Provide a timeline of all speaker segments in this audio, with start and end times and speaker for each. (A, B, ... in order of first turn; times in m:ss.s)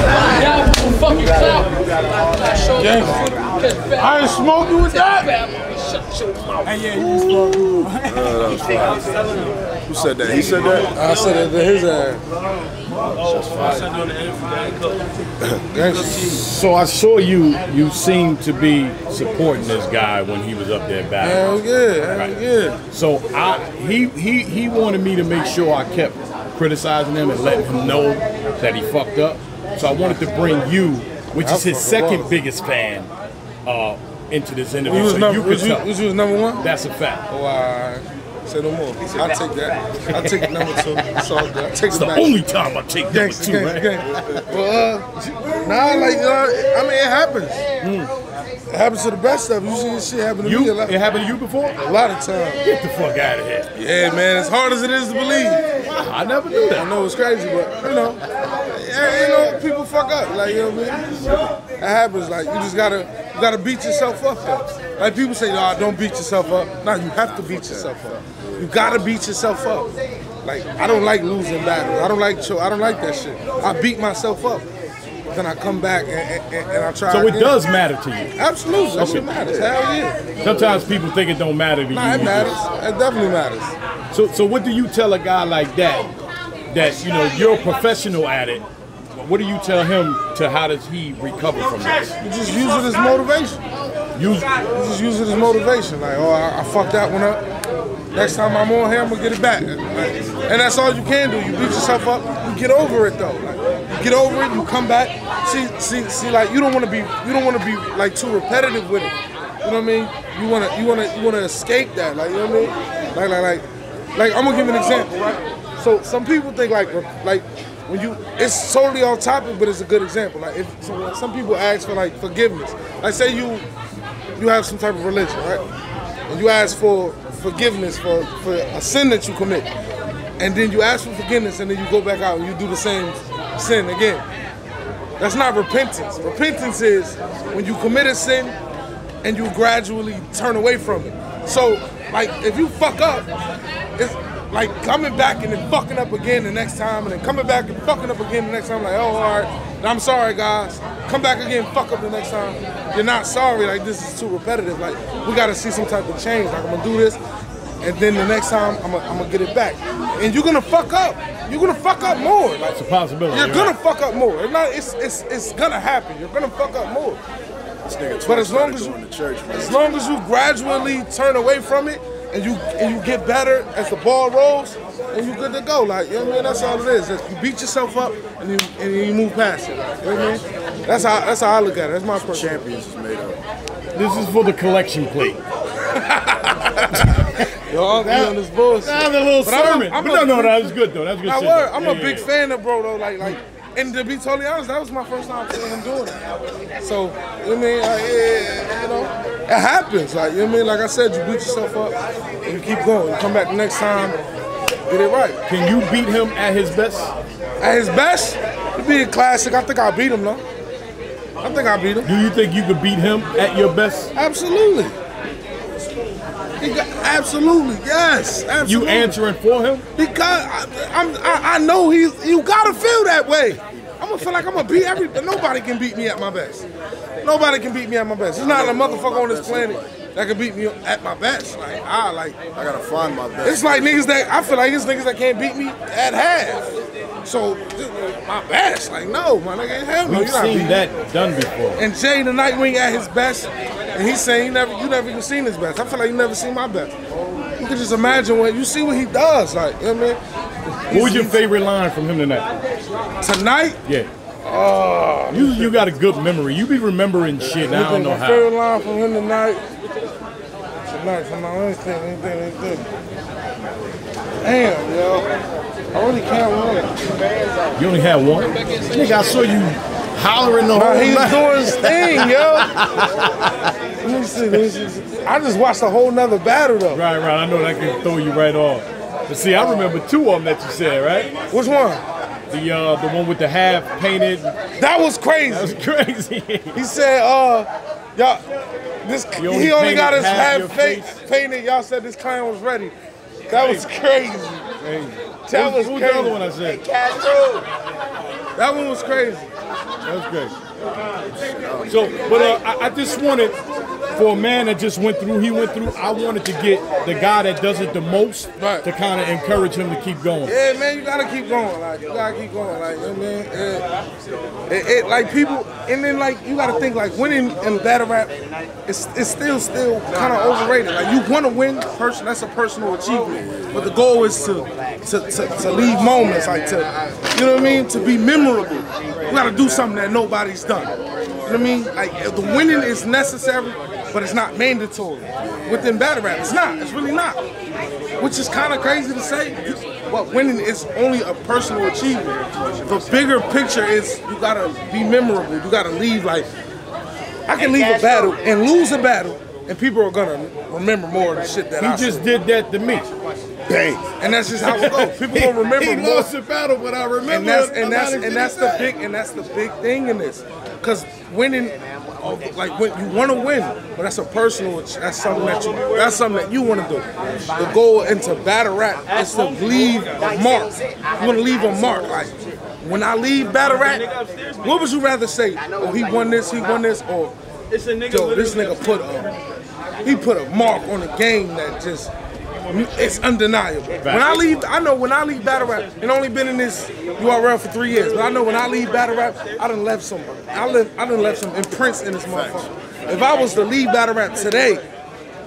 0:00.3-0:01.7 A
0:02.7-0:05.6 B
0:05.4-0:06.2 A
0:06.6-0:08.4 C
0:07.0-0:07.8 B
0:08.0-0:09.0 D
0:09.8-0:10.9 D
0:10.9-0:12.2 B
0:13.1-0:14.0 D
0:15.6-0:16.4 B
0:16.2-0:21.4 C
0:21.2-0:22.8 B
0:22.9-0:33.1 C
0:31.4-0:32.4 B
0:33.6-0:35.9 C
0:34.8-0:36.6 B
0:36.6-0:37.2 C
0:37.3-0:42.4 B
0:41.9-0:44.2 C
0:43.1-0:47.7 B
0:47.8-0:48.1 C
0:48.7-0:51.0 B
0:50.4-0:51.8 C
0:51.8-0:52.6 B
0:52.6-0:53.7 C
0:53.7-0:55.6 B
0:55.9-0:56.9 C
0:56.7-1:01.1 B
1:01.7-1:09.9 B
1:07.3-1:08.9 D
1:10.4-1:14.7 B
1:15.3-1:17.6 B
1:17.1-1:18.3 C
1:18.4-1:20.3 B
1:19.0-1:19.4 C
1:19.0-1:19.7 D
1:20.4-1:22.6 C
1:20.4-1:20.9 D
1:21.9-1:23.8 B
1:24.1-1:26.1 C
1:26.7-1:28.6 C
1:29.2-1:32.2 C
1:32.2-1:33.6 B
1:34.2-1:34.5 C
1:34.7-1:37.4 B
1:38.1-2:03.7 B
2:04.4-2:05.6 B
2:06.3-2:09.7 B
2:10.4-2:14.2 B
2:15.2-2:18.6 B
2:19.2-2:23.3 B
2:24.0-2:37.2 B
2:37.8-2:47.2 B
2:42.7-2:43.8 C
2:47.8-2:49.8 D
2:48.2-2:49.0 B
2:49.5-3:02.6 B
3:02.2-3:03.4 D
3:04.0-3:05.4 C
3:05.9-3:16.2 B
3:06.8-3:07.5 C
3:08.0-3:12.3 C
3:16.8-3:24.2 B
3:24.9-3:25.4 B
3:25.5-3:27.1 C
3:27.6-3:30.4 B
3:31.4-3:32.1 B
3:32.0-3:34.1 C
3:34.2-3:35.0 B
3:36.6-3:39.2 B
3:38.6-3:39.8 C
3:40.0-3:46.7 B
3:47.2-3:52.4 B
3:48.4-3:50.0 D
3:52.6-3:54.0 D
3:53.4-4:00.9 B
4:00.0-4:01.8 C
4:01.8-4:07.0 B
4:07.6-4:10.2 B
4:10.9-4:11.4 B
4:10.9-4:12.5 C
4:13.2-4:13.8 B
4:14.4-4:15.9 B
4:15.3-4:18.5 C
4:17.4-4:19.6 B
4:20.9-4:22.9 B
4:24.4-4:25.3 B
4:25.9-4:27.0 B
4:27.8-4:33.3 C
4:30.7-4:32.7 B
4:34.0-4:37.0 B
4:36.9-4:41.3 C
4:41.5-4:42.0 B
4:42.5-4:44.6 C
4:44.8-4:45.8 B
4:45.5-4:46.8 C
4:46.7-4:48.4 B
4:49.0-4:52.9 B
4:49.4-4:51.2 C
4:53.5-4:54.7 B
4:53.5-4:53.8 C
4:54.8-4:56.9 C
4:55.5-4:56.4 B
4:58.6-4:59.5 B
5:00.0-5:00.5 C
5:01.3-5:02.4 D
5:01.9-5:03.6 C
5:04.1-5:10.6 C
5:08.6-5:08.9 B
5:10.4-5:13.9 B
5:14.7-5:18.4 B
5:18.9-5:30.9 B
5:23.3-5:23.9 D
5:31.4-5:37.4 B
5:35.4-5:35.9 D
5:38.2-5:46.5 B
5:47.5-5:52.3 B
5:51.8-5:53.1 C
5:53.7-5:59.0 C
5:54.2-5:56.3 B
5:57.2-6:14.1 B
6:13.6-6:14.7 C
6:14.6-6:17.4 B
6:17.7-6:19.3 C
6:18.0-6:19.4 B
6:20.0-6:22.1 B
6:22.7-6:34.8 B
6:24.0-6:24.4 C
6:32.3-6:32.7 D